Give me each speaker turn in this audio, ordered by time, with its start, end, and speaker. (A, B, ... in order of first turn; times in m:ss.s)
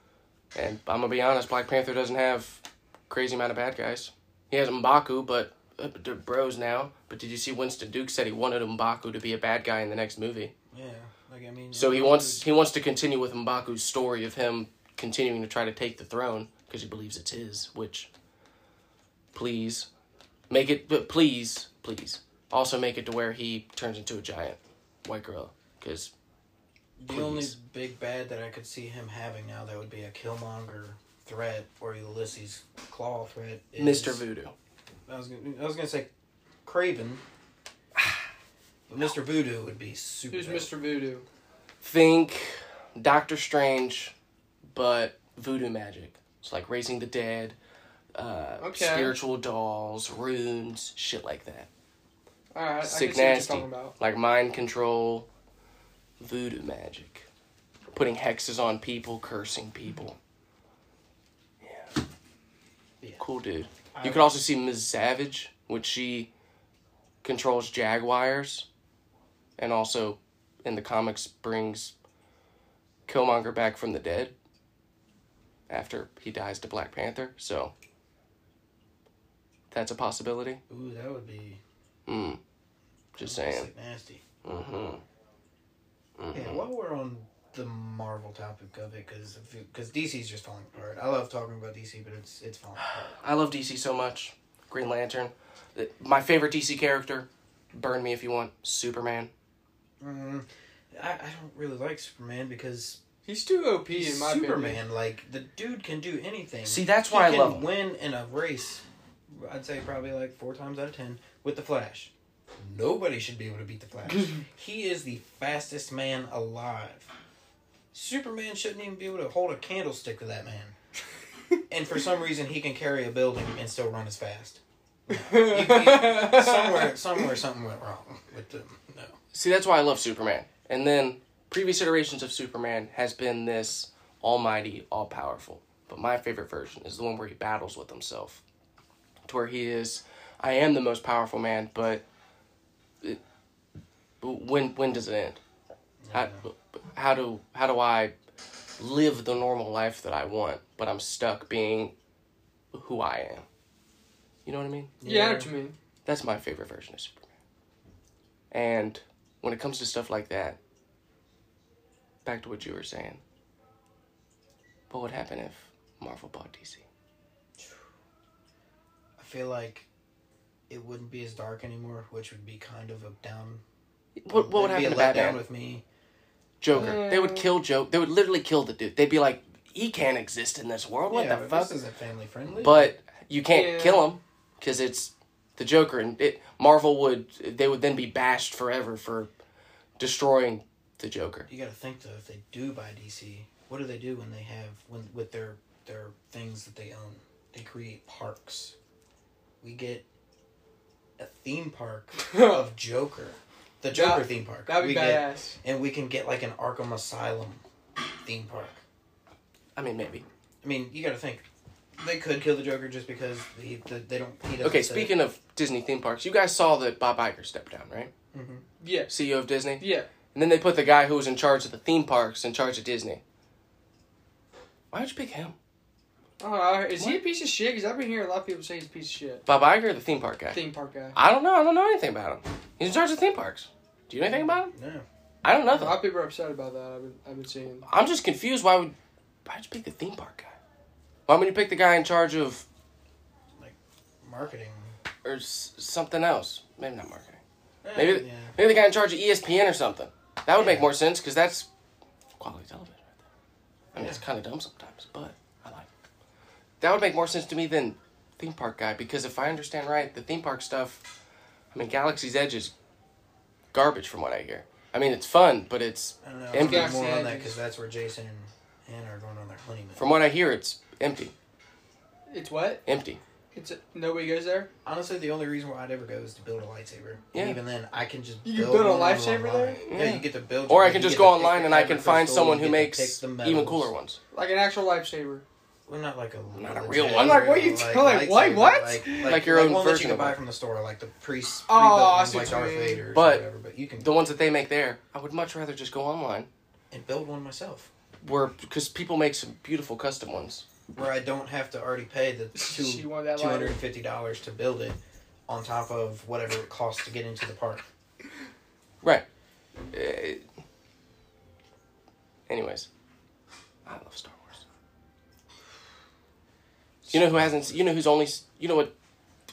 0:00.5-0:10.5 A
0:10.7-0:12.4 B
0:11.7-0:18.1 A
0:19.3-0:19.9 A
0:20.5-0:26.1 A
0:27.0-0:34.2 B
0:27.1-0:27.6 A
0:33.8-0:34.5 A
0:35.1-0:36.1 B
0:36.6-0:37.2 B
0:38.9-0:40.7 B
0:40.3-0:41.3 C
0:41.8-0:44.1 A
0:44.7-0:47.6 A
0:48.2-0:51.7 A
0:48.6-0:49.2 C
0:52.5-0:53.9 C
0:52.8-0:55.3 A
0:56.2-0:57.3 A
0:57.9-1:00.2 A
1:01.6-1:02.0 A
1:03.2-1:06.3 A
1:03.9-1:04.4 B
1:07.2-1:08.7 A
1:09.6-1:11.9 A
1:13.1-1:14.3 A
1:15.7-1:17.7 A
1:19.7-1:20.6 A
1:20.7-1:21.6 B
1:22.1-1:22.4 A
1:23.2-1:23.7 A
1:23.2-1:24.2 B
1:24.4-1:25.0 A
1:26.2-1:26.6 A
1:26.3-1:33.2 B
1:32.8-1:39.3 A
1:40.0-1:43.0 B
1:43.3-1:44.8 C
1:43.9-1:57.1 B
1:46.6-1:47.7 A
1:57.9-2:00.8 B
2:01.7-2:09.2 B
2:05.1-2:07.0 C
2:09.3-2:18.4 A
2:19.2-2:22.0 A
2:24.2-2:25.4 A
2:26.0-2:26.4 B
2:26.1-2:28.1 A
2:28.8-2:31.9 A
2:32.7-2:33.4 A
2:34.4-2:35.0 A
2:35.0-2:35.5 B
2:35.0-2:35.8 C
2:36.1-2:37.3 A
2:38.5-2:40.6 A
2:42.2-2:43.2 A
2:44.9-2:46.8 A
2:49.2-2:49.9 B
2:50.7-2:53.6 B
2:54.2-2:55.4 A
2:54.3-2:55.8 B
2:56.6-3:01.8 A
2:56.7-2:57.0 B
2:56.7-2:57.5 C
3:01.1-3:02.9 B
3:02.6-3:09.3 A
3:03.5-3:04.0 C
3:10.0-3:11.5 A
3:11.5-3:18.8 B
3:19.6-3:20.0 B
3:21.2-3:27.6 B
3:22.2-3:22.6 C
3:23.9-3:25.6 C
3:28.2-3:28.8 B
3:29.8-3:30.2 A
3:30.6-3:31.4 B
3:32.0-3:35.1 B
3:34.6-3:38.1 A
3:38.3-3:38.6 B
3:38.8-3:39.1 C
3:39.1-3:43.2 A
3:39.8-3:40.1 C
3:44.9-3:45.6 A
3:46.4-3:49.4 C
3:49.5-3:50.6 A
3:50.5-3:51.2 C
3:51.1-3:54.7 A
3:54.3-3:55.0 B
3:55.4-3:56.0 A
3:55.7-3:57.9 C
3:57.9-3:58.9 A
3:59.5-4:00.6 A
4:01.3-4:02.6 A
4:03.6-4:05.0 B
4:05.2-4:07.4 A
4:07.8-4:08.6 B
4:08.0-4:11.7 A
4:10.6-4:10.9 B
4:12.4-4:13.2 A
4:13.9-4:15.9 A
4:14.0-4:14.2 B
4:16.8-4:21.1 A
4:21.7-4:22.7 A
4:23.7-4:27.0 A
4:26.2-4:30.0 B
4:26.6-4:27.6 C
4:30.0-4:31.3 A
4:32.3-4:32.8 C
4:32.9-4:33.2 A
4:33.5-4:34.7 C
4:34.8-4:43.9 B
4:37.3-4:37.6 A
4:38.4-4:39.8 C
4:39.9-4:44.2 A
4:44.3-4:45.4 C
4:45.9-4:54.2 B
4:46.5-4:47.5 A
4:47.0-4:49.4 C
4:49.2-4:50.4 A
4:51.7-4:53.0 C
4:53.1-4:53.4 A
4:54.0-4:56.5 A
4:56.9-4:57.9 B
4:58.2-5:00.7 A
5:01.0-5:07.9 B
5:02.6-5:03.8 C
5:09.9-5:10.4 A
5:12.5-5:12.9 A
5:13.9-5:14.6 A
5:17.1-5:17.8 B
5:17.1-5:18.9 A